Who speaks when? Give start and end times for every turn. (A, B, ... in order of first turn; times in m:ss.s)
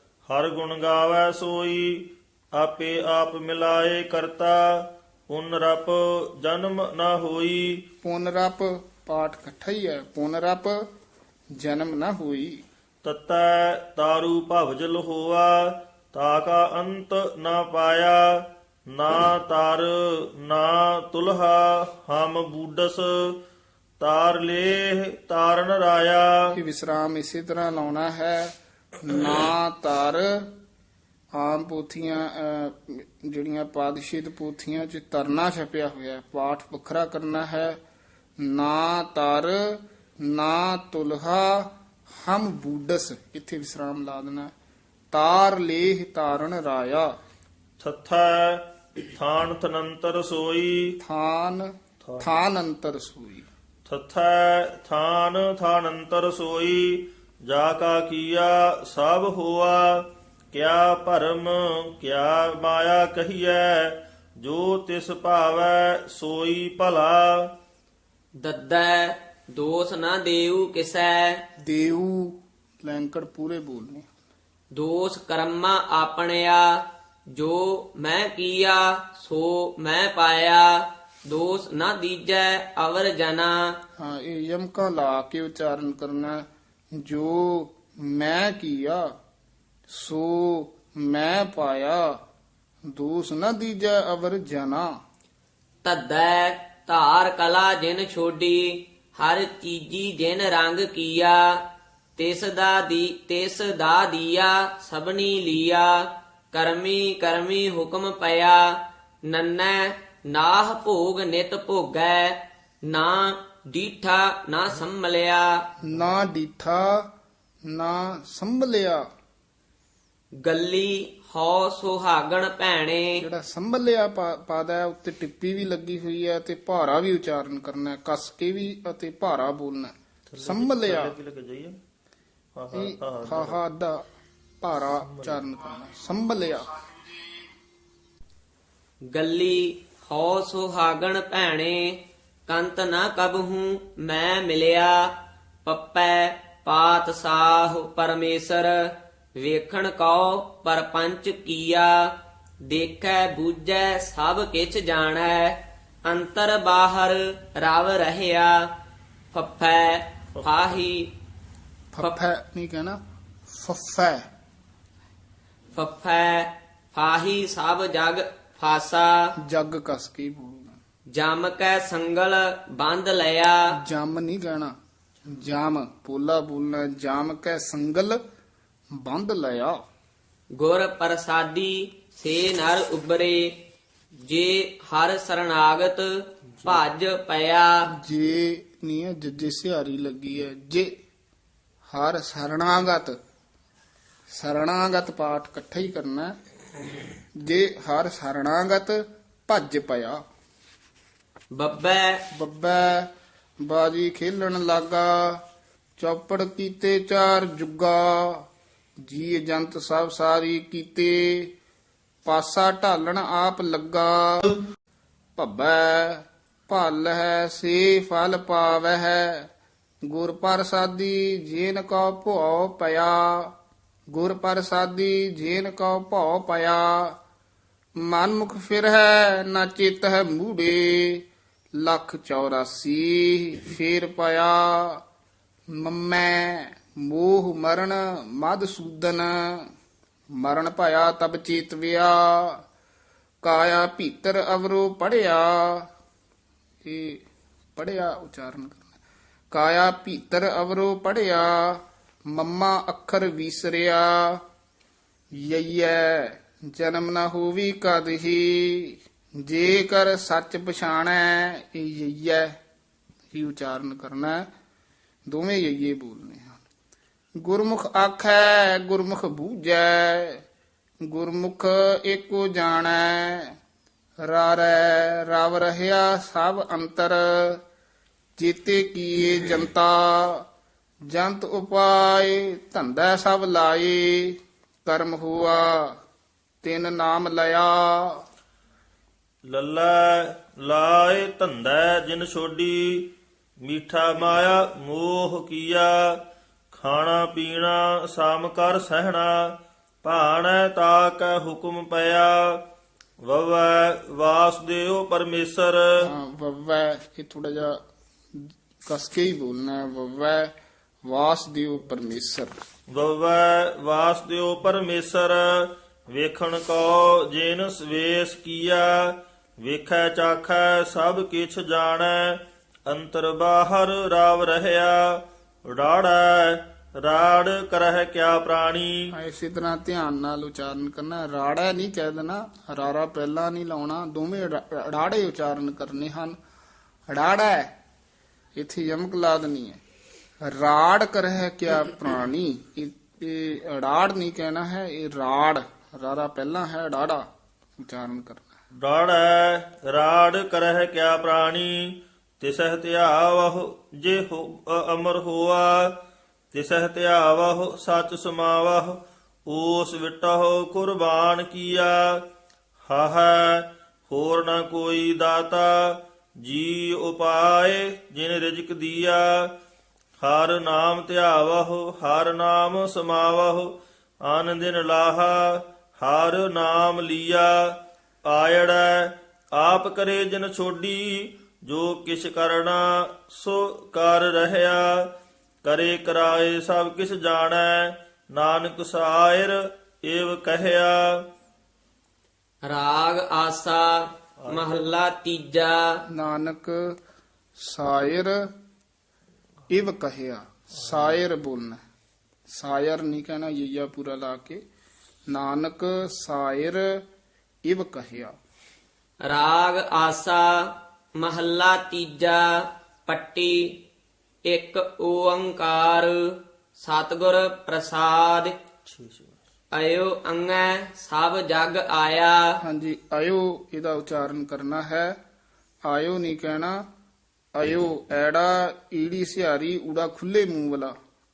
0:00.3-0:07.8 A
0:08.0-0:10.8 B
0:11.5-0:12.6 B
0:13.0-0:23.4 A
0:24.0-0:26.3 A
0:26.5-0:30.5 B
0:31.4-0:37.8 B
0:38.4-0:44.5 B
0:45.1-0:47.1 B
0:47.8-0:51.0 A
0:51.0-0:53.5 B
0:52.0-0:52.3 A
0:53.8-1:07.5 A
1:08.4-1:11.4 C
1:11.6-1:14.1 B
1:14.7-1:16.8 C
1:17.4-1:23.7 C
1:24.0-1:26.4 B
1:27.0-1:29.0 B
1:29.9-1:32.1 B
1:32.9-1:34.9 B
1:35.8-1:41.6 C
1:42.2-1:55.6 C
1:55.8-1:57.1 B
1:57.7-1:59.0 B
2:00.4-2:03.2 C
2:03.2-2:11.1 B
2:10.3-2:11.8 A
2:12.5-2:13.6 A
2:12.7-2:14.0 B
2:14.6-2:16.7 B
2:15.1-2:15.4 A
2:19.1-2:25.1 C
2:25.6-2:32.1 C
2:32.6-2:38.7 C
2:39.3-2:41.1 C
2:41.9-2:44.2 B
2:45.7-2:49.3 C
2:49.4-2:50.8 B
2:51.2-2:53.7 C
2:53.8-2:54.7 B
2:55.2-2:58.2 B
2:59.0-2:59.8 B
3:00.6-3:03.5 C
3:04.2-3:07.7 C
3:08.0-3:10.9 B
3:11.9-3:13.1 B
3:14.3-3:16.3 B
3:17.4-3:20.2 B
3:21.5-3:22.2 C
3:22.3-3:23.1 B
3:23.6-3:25.4 B
3:26.0-3:28.5 B
3:29.0-3:31.5 B
3:32.2-3:34.5 B
3:35.4-3:39.5 B
3:40.1-3:43.5 B
3:44.1-3:47.2 B
3:48.0-3:51.2 B
3:51.8-3:55.0 B
3:55.7-3:59.7 B
4:00.4-4:02.6 B
4:03.4-4:05.9 B
4:06.8-4:07.2 B
4:07.8-4:08.9 B
4:09.5-4:14.4 B
4:15.4-4:22.5 B
4:23.3-4:24.5 B
4:25.3-4:26.6 B
4:27.4-4:30.4 B
4:31.0-4:33.5 B
4:34.2-4:37.6 B
4:38.4-4:40.4 B
4:41.1-4:45.9 B
4:46.6-4:48.2 B
4:49.4-4:53.1 A
4:53.6-4:56.2 A
4:56.7-5:02.6 A
5:03.2-5:06.0 A
5:06.0-5:07.8 B
5:08.3-5:10.5 B
5:11.0-5:12.5 B
5:12.9-5:29.1 A
5:29.1-5:36.4 B
5:37.1-5:37.7 B
5:38.6-5:39.8 B
5:40.4-5:47.3 B
5:47.8-5:48.5 B
5:48.8-5:55.9 A
5:56.5-6:02.2 A
6:02.8-6:09.5 A
6:10.2-6:13.7 A
6:14.2-6:25.1 A
6:25.6-6:31.0 A
6:32.7-6:36.0 C
6:36.1-6:36.8 B
6:37.6-6:38.4 B
6:39.7-6:41.8 B
6:42.5-6:44.6 B
6:45.3-6:47.0 B
6:47.7-6:48.3 B
6:49.2-6:53.8 C
6:54.4-6:58.5 C
6:58.8-6:59.4 A
6:59.7-7:02.5 C
7:02.6-7:05.2 B
7:05.8-7:06.8 B
7:07.6-7:10.9 B